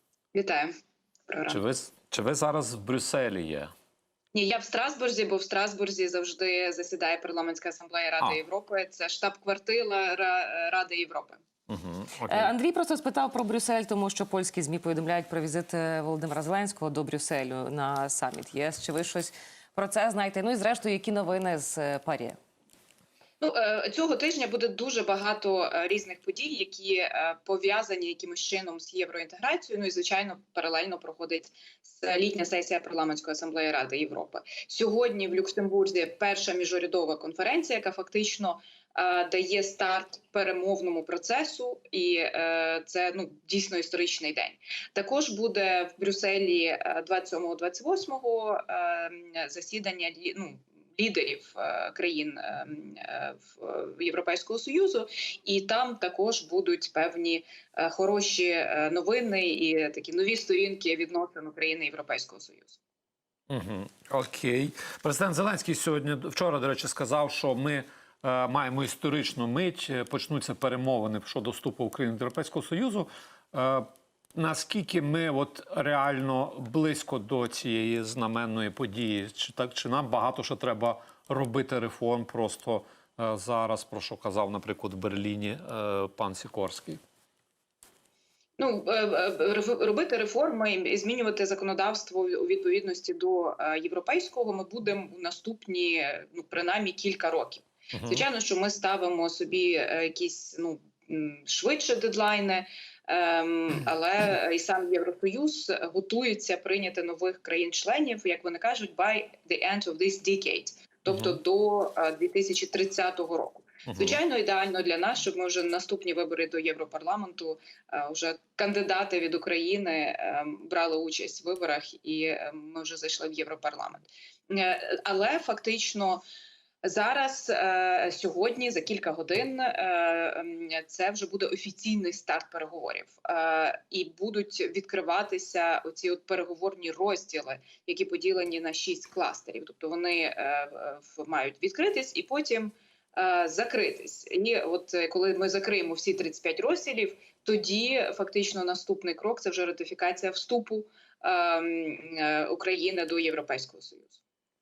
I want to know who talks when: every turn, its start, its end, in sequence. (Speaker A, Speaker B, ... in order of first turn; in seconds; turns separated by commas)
Speaker A: 0.3-0.7, Speaker A: 1.3-1.6, Speaker B: 1.5-3.7, Speaker A: 4.3-11.4, Speaker B: 11.7-12.5, Speaker C: 12.3-22.4, Speaker A: 23.4-62.8, Speaker B: 63.5-87.0, Speaker A: 88.6-126.2, Speaker B: 97.9-98.2, Speaker B: 111.1-111.4, Speaker B: 113.8-114.2, Speaker A: 126.8-154.2